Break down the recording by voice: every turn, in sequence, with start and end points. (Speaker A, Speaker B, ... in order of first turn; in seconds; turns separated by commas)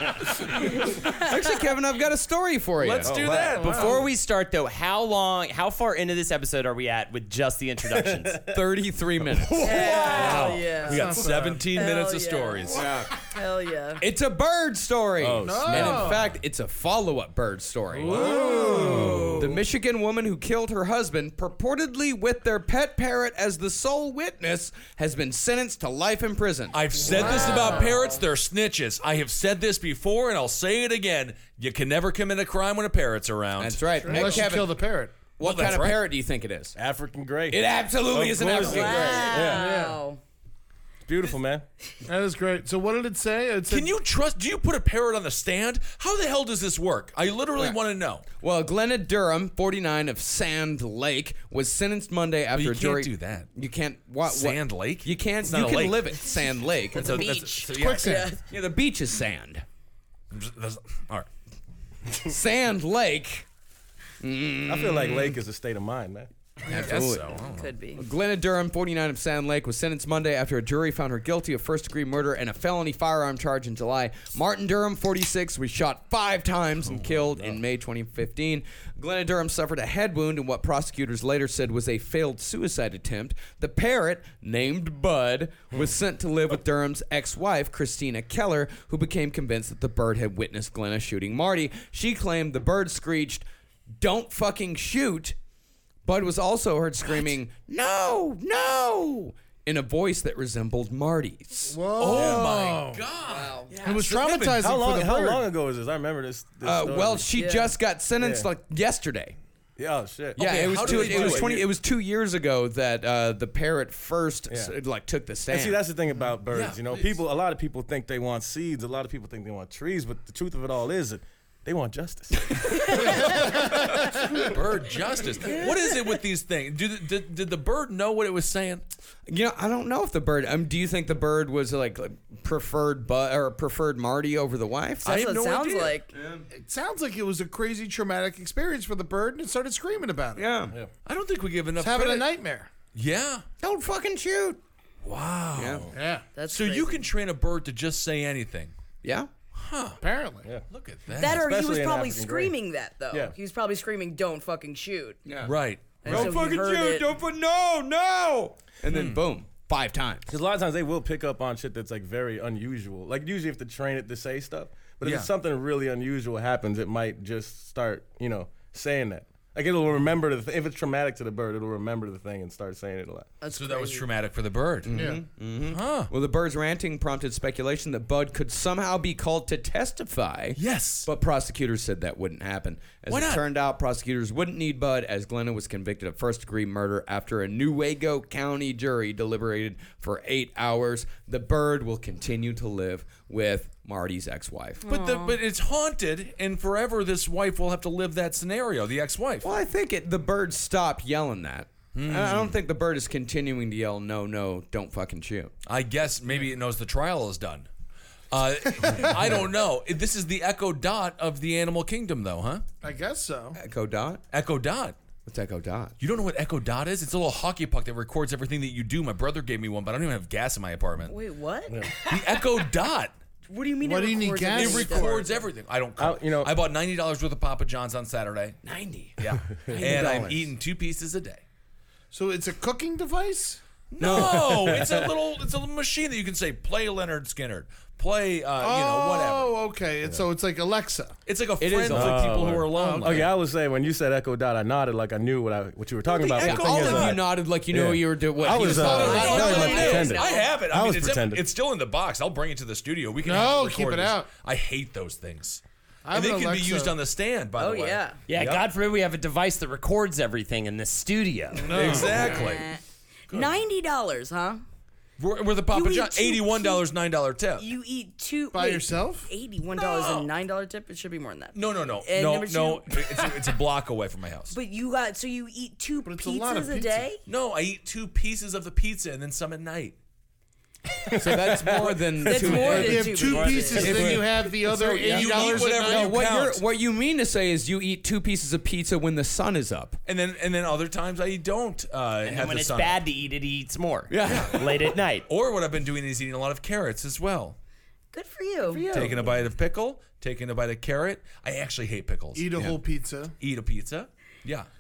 Speaker A: 1.1-3.1, Speaker B: 2.8-4.1, Speaker C: 3.0-3.6, Speaker D: 3.5-4.0, Speaker E: 3.6-8.4, Speaker C: 7.9-8.6, Speaker A: 8.5-9.9, Speaker F: 9.6-11.2, Speaker B: 9.7-12.9, Speaker D: 9.9-10.2, Speaker D: 10.8-11.7, Speaker F: 11.7-14.0, Speaker A: 12.7-13.1, Speaker A: 14.0-27.9, Speaker C: 15.2-16.2, Speaker D: 15.4-16.4, Speaker D: 18.0-19.5, Speaker B: 18.1-18.6, Speaker C: 18.1-19.4, Speaker F: 18.6-19.5, Speaker B: 26.7-34.5, Speaker D: 27.1-28.0, Speaker F: 27.2-28.0, Speaker A: 33.6-34.8, Speaker D: 34.0-35.2, Speaker A: 35.4-36.8, Speaker B: 35.4-36.0, Speaker C: 36.8-39.7, Speaker A: 37.5-39.5, Speaker F: 38.6-40.2, Speaker D: 39.5-40.0, Speaker C: 41.1-41.6, Speaker D: 42.0-44.0, Speaker B: 43.7-48.2, Speaker A: 48.4-57.3, Speaker B: 52.5-53.5, Speaker B: 54.2-56.1, Speaker F: 56.9-58.4, Speaker B: 56.9-58.1, Speaker D: 57.7-58.4, Speaker A: 58.5-59.6, Speaker B: 60.3-61.3, Speaker A: 62.2-63.5, Speaker A: 64.2-65.4, Speaker C: 64.7-66.3, Speaker A: 66.6-67.3, Speaker B: 66.7-67.7, Speaker F: 67.4-68.0, Speaker A: 68.0-93.5, Speaker A: 94.0-95.4, Speaker A: 96.0-101.8, Speaker D: 101.7-103.1, Speaker B: 102.0-104.6, Speaker F: 103.2-103.8, Speaker D: 103.8-105.5, Speaker C: 104.6-107.3, Speaker A: 106.6-109.4, Speaker F: 107.3-107.8, Speaker C: 108.2-108.5, Speaker C: 109.8-111.6, Speaker B: 110.4-111.7, Speaker A: 110.4-115.8, Speaker C: 115.5-122.8, Speaker B: 116.5-117.1, Speaker B: 122.9-128.8, Speaker F: 122.9-123.3, Speaker F: 125.4-126.2, Speaker A: 129.3-135.1, Speaker B: 135.0-136.0, Speaker F: 135.0-136.1, Speaker A: 136.1-136.4, Speaker D: 136.5-140.5, Speaker A: 140.3-140.7, Speaker B: 141.1-142.3, Speaker D: 141.8-142.7, Speaker B: 142.9-143.4, Speaker A: 143.6-144.6, Speaker B: 145.0-145.9, Speaker A: 145.6-145.8, Speaker D: 145.9-146.3, Speaker F: 146.3-147.1, Speaker B: 146.5-148.7, Speaker A: 149.0-149.3, Speaker B: 149.5-150.0, Speaker D: 150.0-150.5, Speaker B: 150.7-151.5, Speaker F: 151.2-155.2, Speaker C: 151.2-152.5, Speaker A: 155.3-160.3, Speaker B: 155.4-156.3, Speaker F: 156.1-157.1, Speaker B: 158.9-159.2, Speaker C: 160.3-173.3, Speaker B: 165.0-165.3, Speaker F: 173.4-174.1, Speaker B: 173.5-175.1, Speaker A: 174.8-194.9, Speaker D: 174.9-175.2, Speaker B: 175.7-176.1, Speaker B: 180.6-181.1, Speaker B: 183.1-183.4, Speaker F: 194.8-195.4, Speaker B: 194.9-199.5, Speaker A: 199.4-205.5, Speaker B: 201.9-202.6, Speaker B: 205.7-207.7, Speaker B: 208.3-212.6, Speaker D: 212.8-213.6, Speaker A: 213.6-214.2, Speaker B: 214.3-215.0, Speaker A: 215.3-215.9, Speaker B: 216.0-221.1, Speaker F: 221.0-221.9, Speaker B: 221.9-223.1, Speaker F: 223.5-225.4, Speaker D: 223.8-225.2, Speaker B: 224.6-228.6, Speaker C: 226.0-226.5, Speaker A: 228.6-229.1, Speaker B: 229.2-231.4, Speaker C: 229.6-230.0, Speaker A: 229.7-230.5, Speaker D: 232.1-233.6, Speaker B: 233.9-239.6, Speaker A: 234.0-234.7, Speaker C: 234.4-235.1, Speaker D: 238.6-241.2, Speaker B: 241.3-243.3, Speaker A: 241.6-242.3, Speaker C: 241.9-251.4, Speaker D: 242.7-243.3, Speaker B: 246.1-247.2, Speaker A: 246.4-250.1, Speaker B: 248.5-258.7, Speaker F: 248.9-250.6, Speaker D: 253.2-254.3, Speaker D: 256.1-257.0, Speaker F: 257.6-258.2, Speaker E: 258.3-261.9, Speaker D: 261.7-262.4, Speaker B: 261.7-262.7, Speaker F: 261.9-264.6, Speaker B: 265.2-267.7, Speaker F: 265.7-266.9, Speaker F: 267.6-273.6, Speaker D: 268.5-269.3, Speaker B: 269.8-270.3, Speaker B: 271.5-274.6, Speaker F: 274.5-277.2, Speaker D: 276.1-277.1, Speaker B: 277.3-280.0, Speaker C: 281.1-284.2, Speaker A: 281.1-283.1, Speaker F: 282.2-284.1, Speaker D: 282.6-286.1, Speaker B: 283.8-286.6, Speaker A: 285.1-290.0, Speaker B: 290.1-293.0, Speaker E: 292.2-295.3, Speaker A: 294.1-294.9, Speaker B: 294.2-294.7, Speaker B: 295.3-297.6, Speaker F: 298.1-299.1, Speaker D: 298.7-299.4, Speaker B: 298.9-302.8, Speaker D: 302.4-303.4, Speaker B: 303.4-304.7